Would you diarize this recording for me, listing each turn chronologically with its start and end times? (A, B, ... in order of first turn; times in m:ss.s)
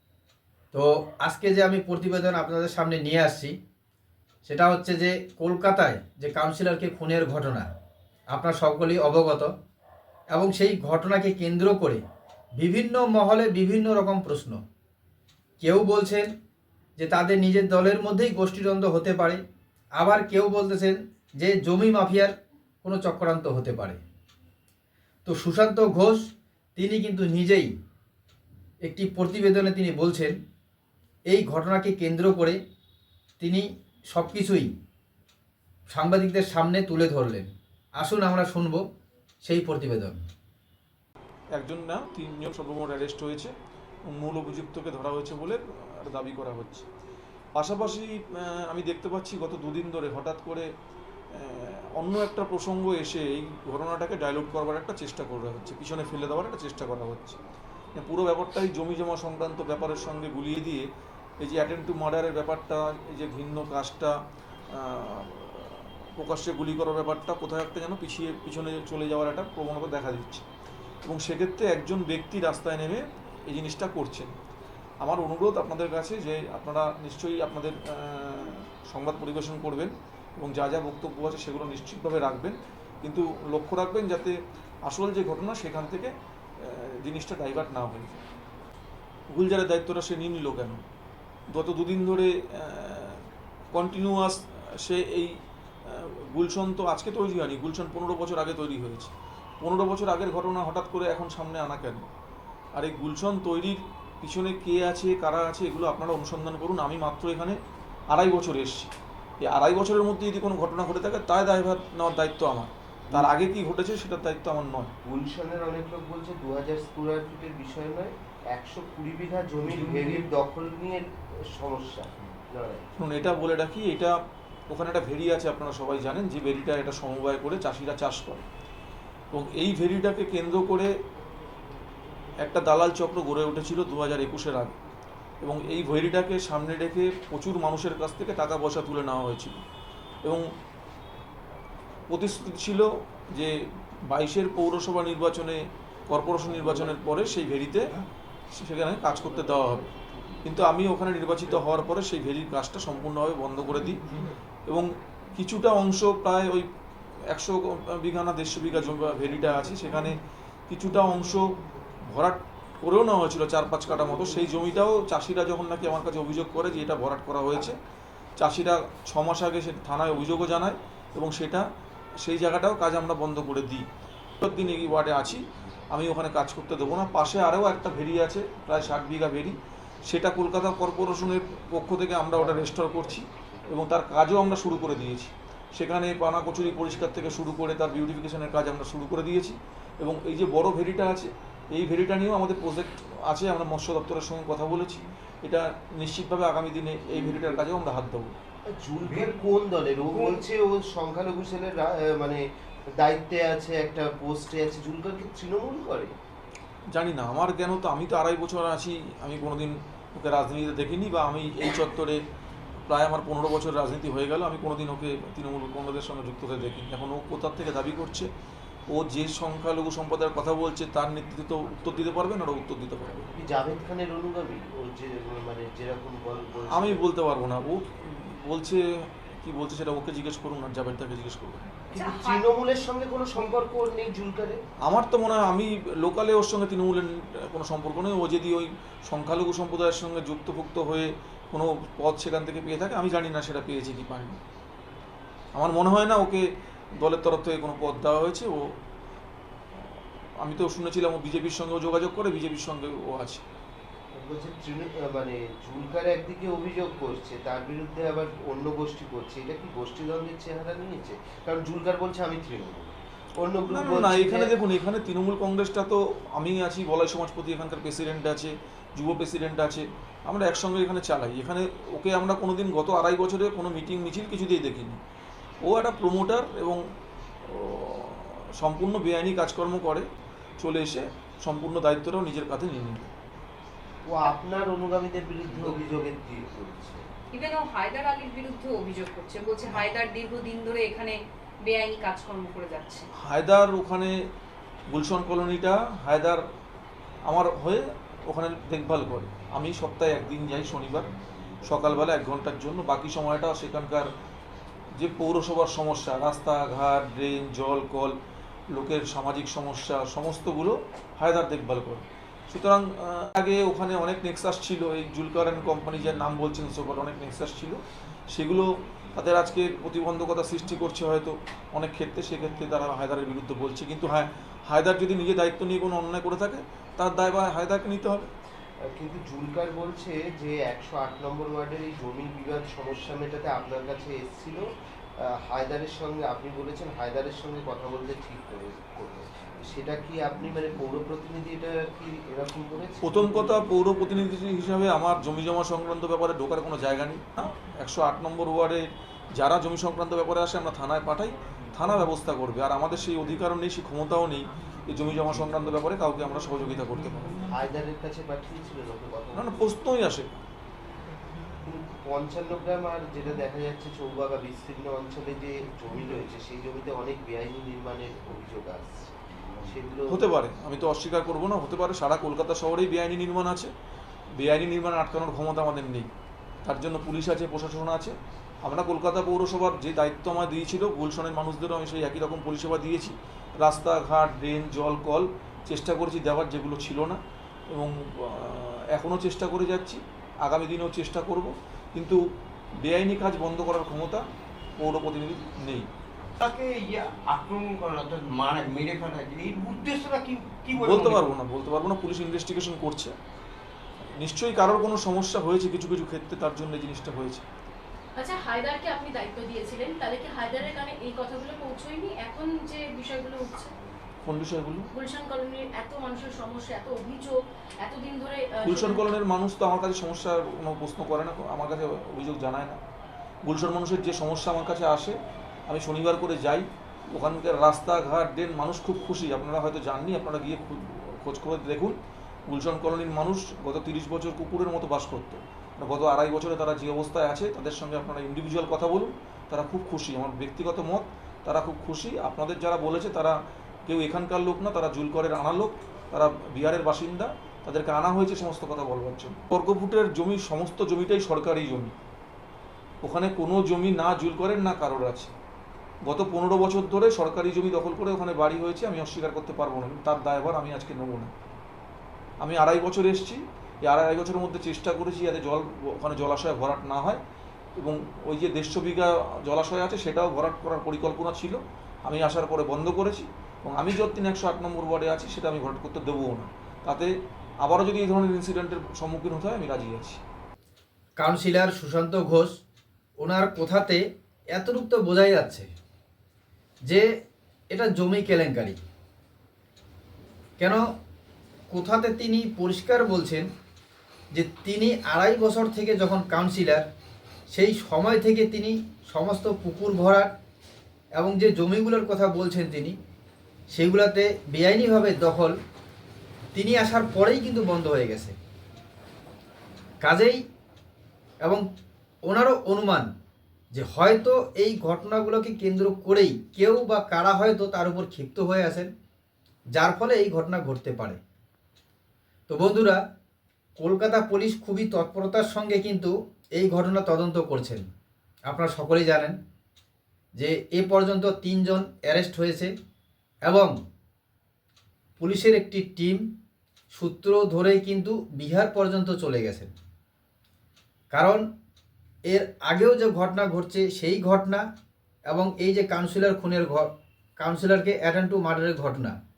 0:00.7-0:03.6 A
0:04.4-0:07.7 A
0:08.3-0:09.5 A
0:10.3-0:12.0 A
0:12.6-0:14.6 A
0:15.6-0:16.3 A
0:17.0-0:19.4 A
0:20.0-0:24.0 A
0:25.2-0:27.7 A
0:28.8-0:30.4 A
0:31.3-0:32.6 A
0:33.4-0:34.7 A
0:35.9-0:38.8 A
0:39.4-0:40.2 A
0:41.6-0:43.5 B
0:44.1-0:46.8 B
0:47.6-0:50.7 B
0:51.3-0:57.4 B
0:57.9-1:00.8 B
1:01.4-1:04.1 B
1:04.7-1:10.4 B
1:11.0-1:14.3 B
1:15.0-1:28.2 B
1:29.3-1:30.8 B
1:31.5-1:35.3 B
1:35.8-1:42.0 B
1:42.8-1:47.6 B
1:48.1-1:48.9 B
1:49.4-1:54.9 B
1:55.0-2:02.9 C
1:59.7-2:00.2 D
2:03.0-2:04.1 B
2:04.7-2:08.5 B
2:09.3-2:10.9 B
2:12.4-2:14.7 B
2:15.4-2:19.6 B
2:22.1-2:23.5 B
2:24.1-2:28.0 B
2:28.5-2:29.9 B
2:30.4-2:34.0 B
2:33.8-2:34.3 D
2:34.6-2:36.7 B
2:37.3-2:40.2 B
2:38.6-2:40.1 D
2:40.7-2:41.5 B
2:41.2-2:41.5 D
2:42.1-2:47.8 B
2:44.0-2:44.7 D
2:46.0-2:47.0 D
2:48.4-2:51.6 B
2:52.2-2:53.8 B
2:54.4-3:18.3 B
2:54.8-2:55.2 D
3:02.3-3:03.8 C
3:06.8-3:07.3 D
3:17.1-3:17.6 C
3:18.7-3:22.4 C
3:19.0-3:19.4 D
3:20.1-3:20.4 D
3:23.0-3:26.1 C
3:26.9-3:32.2 B
3:32.8-3:38.3 B
3:38.9-3:43.3 B
3:43.2-3:47.0 C
3:46.7-3:51.7 B
3:51.9-3:54.6 C
3:51.9-3:52.4 E
3:54.8-4:04.4 B
4:05.5-4:06.4 B
4:07.0-4:08.6 B
4:10.4-4:13.4 B
4:14.1-4:24.5 C
4:23.7-4:35.0 B
4:35.6-4:36.8 B
4:37.4-4:40.1 B
4:40.6-4:43.1 B
4:44.0-4:47.1 C
4:47.3-4:53.1 E
4:53.2-4:54.1 B
4:54.9-4:56.4 B
4:57.3-5:01.1 B
5:00.8-5:01.1 D
5:01.6-5:04.1 B
5:01.7-5:02.1 D
5:05.0-5:08.2 B
5:08.7-5:28.3 B
5:28.8-5:34.7 C
5:35.4-5:43.5 C
5:43.0-5:57.4 B
5:51.6-5:52.0 D
5:52.9-5:53.4 D
5:54.7-5:57.8 D
5:57.5-5:59.7 C
5:59.3-6:00.4 B
6:01.3-6:01.6 D
6:01.6-6:10.2 C
6:06.0-6:06.3 D
6:09.3-6:09.7 D
6:10.1-6:13.7 B
6:14.4-6:16.1 B
6:16.6-6:27.2 B
6:27.7-6:32.2 B
6:32.8-6:34.2 B
6:34.8-6:35.9 B
6:36.4-6:41.4 D
6:40.7-6:43.1 B
6:44.2-6:47.4 B
6:48.2-6:53.7 F
6:54.2-6:54.9 B
6:54.9-6:59.0 F
6:58.6-7:02.8 B
7:03.4-7:05.2 B
7:05.7-7:12.0 B
7:12.5-7:31.9 B
7:33.0-7:35.3 B
7:36.0-7:41.3 B
7:42.4-7:47.2 B
7:47.8-7:57.1 B
7:57.6-8:00.2 B
8:01.2-8:02.6 A
8:03.2-8:05.7 A
8:07.7-8:08.8 A
8:11.7-8:13.5 A
8:14.3-8:16.8 A
8:17.5-8:20.3 A
8:21.2-8:23.0 A
8:23.7-8:25.6 A
8:26.5-8:28.3 A
8:30.0-8:30.4 A
8:32.3-8:33.1 A
8:33.7-8:38.9 A
8:39.8-8:41.2 A
8:42.5-8:43.0 A
8:43.8-8:47.8 A
8:48.5-8:49.4 A
8:50.3-8:52.7 A
8:53.5-8:53.7 A
8:55.2-8:56.3 A
8:56.9-8:59.7 A
9:01.1-9:01.4 A
9:02.3-9:04.6 A
9:05.3-9:09.2 A